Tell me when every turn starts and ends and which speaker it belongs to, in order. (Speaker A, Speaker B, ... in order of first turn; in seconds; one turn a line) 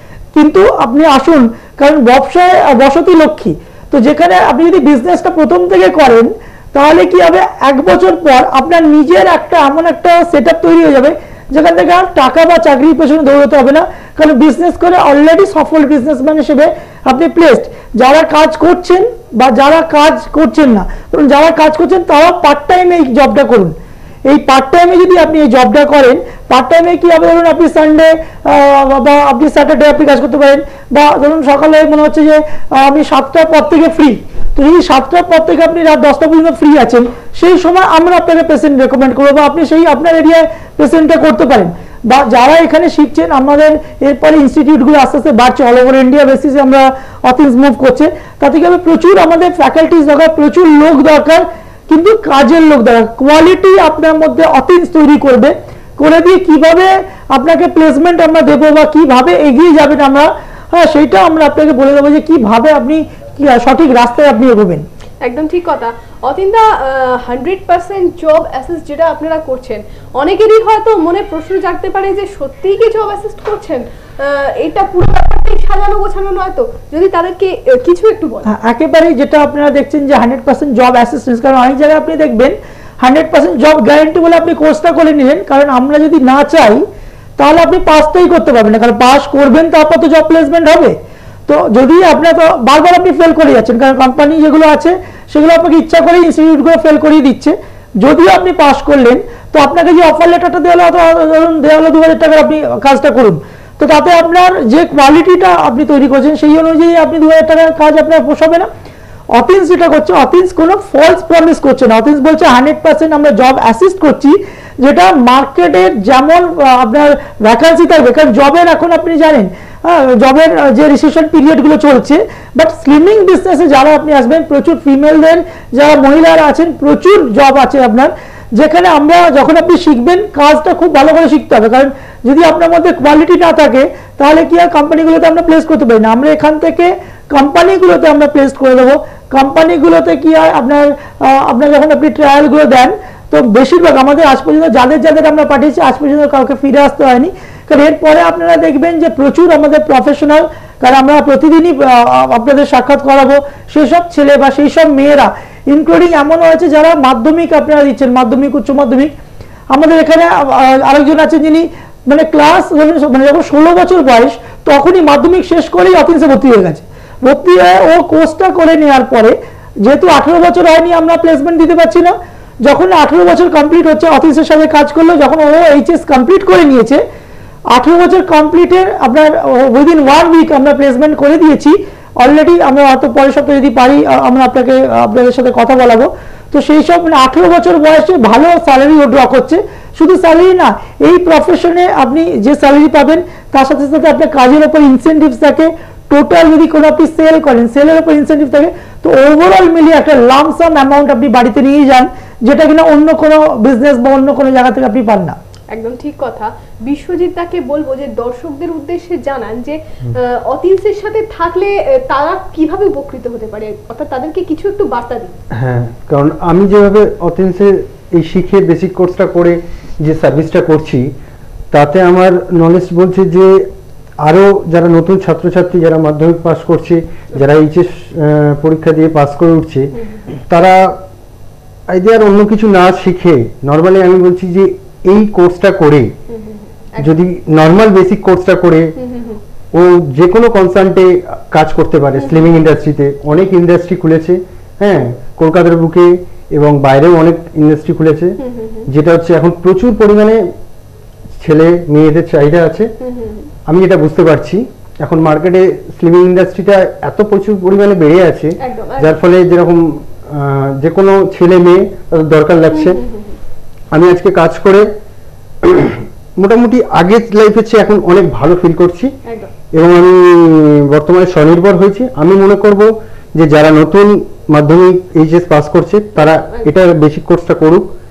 Speaker A: 0.3-64.8
Speaker B: 65.2-78.5
Speaker A: 78.5-86.8
Speaker A: 87.4-91.0
Speaker A: 91.5-108.7
Speaker A: 109.3-159.1
Speaker A: 159.7-177.0
Speaker A: 177.7-205.4
Speaker B: 205.7-215.4
Speaker C: 215.5-221.1
Speaker C: 221.7-231.0
Speaker C: 231.9-236.2
Speaker B: 236.3-237.2
Speaker C: 237.0-238.9
Speaker B: 239.0-239.4
Speaker C: 239.7-250.4
Speaker B: 242.2-242.5
Speaker B: 248.4-248.9
Speaker C: 251.4-252.9
Speaker B: 253.0-253.5
Speaker C: 253.7-263.0
Speaker B: 258.6-259.2
Speaker B: 262.7-263.4
Speaker C: 263.9-264.9
Speaker C: 265.6-269.1
Speaker B: 269.3-269.5
Speaker C: 269.7-277.9
Speaker B: 276.2-276.7